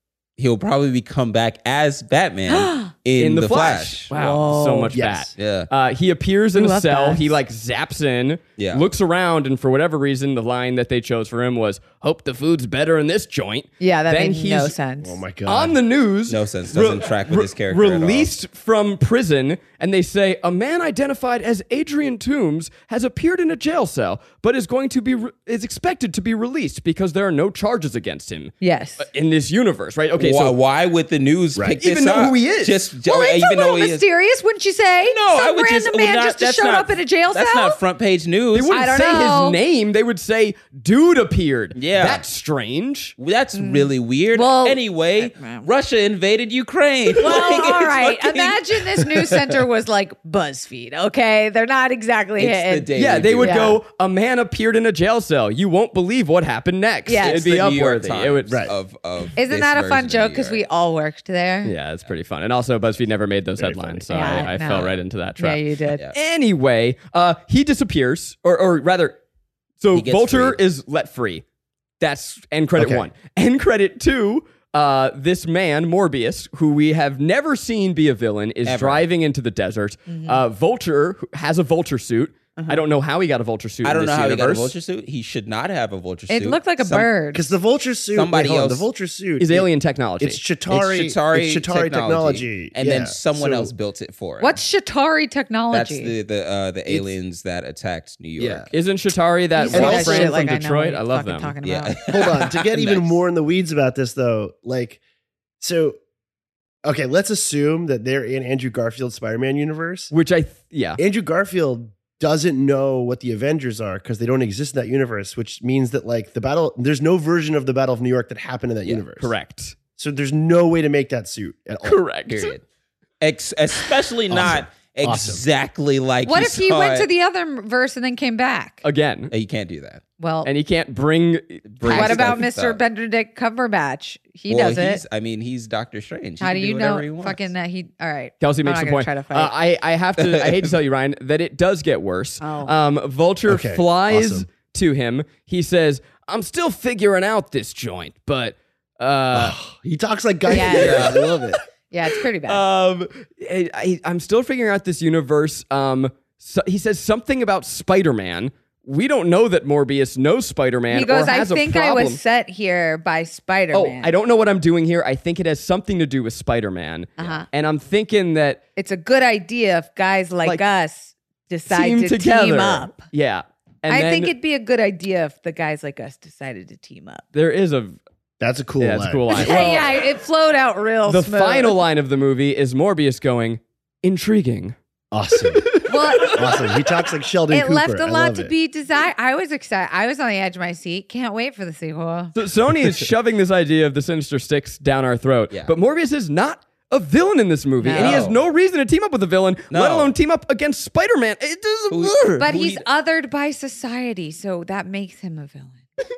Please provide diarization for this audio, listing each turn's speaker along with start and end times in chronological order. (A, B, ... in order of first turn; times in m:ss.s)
0:00.4-0:04.1 A
0:02.5-0:02.9 B
0:03.2-0:14.8 C
0:04.1-0:04.9 B
0:04.9-0:05.4 D
0:05.4-0:05.7 A
0:06.6-0:07.4 B
0:08.6-0:08.8 A
0:13.8-0:15.2 B
0:15.0-0:15.8 D
0:15.5-0:30.6 C
0:16.3-0:18.3 A
0:28.6-0:29.1 B
0:30.2-0:34.0 A
0:31.7-0:32.8 C
0:33.0-0:37.8 B
0:35.1-0:38.8 A
0:38.5-0:43.2 C
0:38.7-0:39.6 B
0:41.8-0:42.2 A
0:43.2-0:48.7 A
0:43.6-0:45.7 B
0:47.2-0:53.8 B
0:52.4-0:53.8 A
0:53.0-0:58.5 C
0:57.1-0:57.4 B
0:57.2-1:00.6 A
0:58.5-0:58.8 D
0:59.4-1:01.7 B
1:01.6-1:09.2 C
1:03.6-1:04.5 D
1:04.1-1:06.0 B
1:09.8-1:11.4 C
1:09.9-1:10.6 A
1:12.0-1:24.7 C
1:12.8-1:13.1 D
1:18.6-1:19.1 A
1:20.1-1:20.4 B
1:23.8-1:27.1 A
1:26.3-1:27.4 B
1:27.3-1:29.7 D
1:28.1-1:28.9 A
1:29.4-1:30.4 C
1:30.2-1:33.7 D
1:30.7-1:34.6 A
1:34.4-1:36.1 B
1:35.7-1:38.7 A
1:38.4-1:41.5 C
1:39.6-1:42.0 B
1:39.7-1:40.3 D
1:41.6-1:43.2 A
1:42.1-1:45.0 D
1:45.6-1:46.0 D
1:46.8-1:50.1 D
1:50.1-1:51.0 C
1:51.0-1:59.3 D
1:59.2-1:59.8 C
2:00.0-2:02.1 D
2:01.8-2:02.5 C
2:02.3-2:02.6 A
2:03.2-2:07.1 A
2:04.3-2:05.4 D
2:06.3-2:08.8 B
2:08.8-2:09.3 C
2:09.3-2:10.0 A
2:10.2-2:10.5 B
2:10.4-2:12.4 C
2:11.7-2:12.8 A
2:11.8-2:15.0 B
2:14.5-2:17.5 A
2:16.4-2:19.5 B
2:18.4-2:29.6 C
2:20.2-2:20.8 A
2:22.4-2:22.7 B
2:23.5-2:24.5 D
2:29.3-2:31.6 D
2:30.5-2:31.0 B
2:30.7-2:31.6 C
2:30.8-2:31.1 A
2:31.9-2:32.6 B
2:32.5-2:42.2 C
2:40.9-2:44.1 B
2:43.7-2:48.6 C
2:47.2-2:47.5 B
2:48.8-2:53.1 B
2:51.7-2:54.3 C
2:53.9-2:57.2 B
2:57.3-2:58.0 C
2:58.4-2:59.4 D
2:58.8-3:00.0 C
2:59.3-3:01.8 B
3:01.1-3:04.8 C
3:05.1-3:08.5 D
3:05.5-3:06.7 C
3:05.9-3:06.6 B
3:07.5-3:12.4 B
3:12.4-3:22.4 C
3:17.8-3:18.3 B
3:17.9-3:18.4 A
3:19.7-3:20.2 A
3:21.9-3:22.9 A
3:22.4-3:25.8 B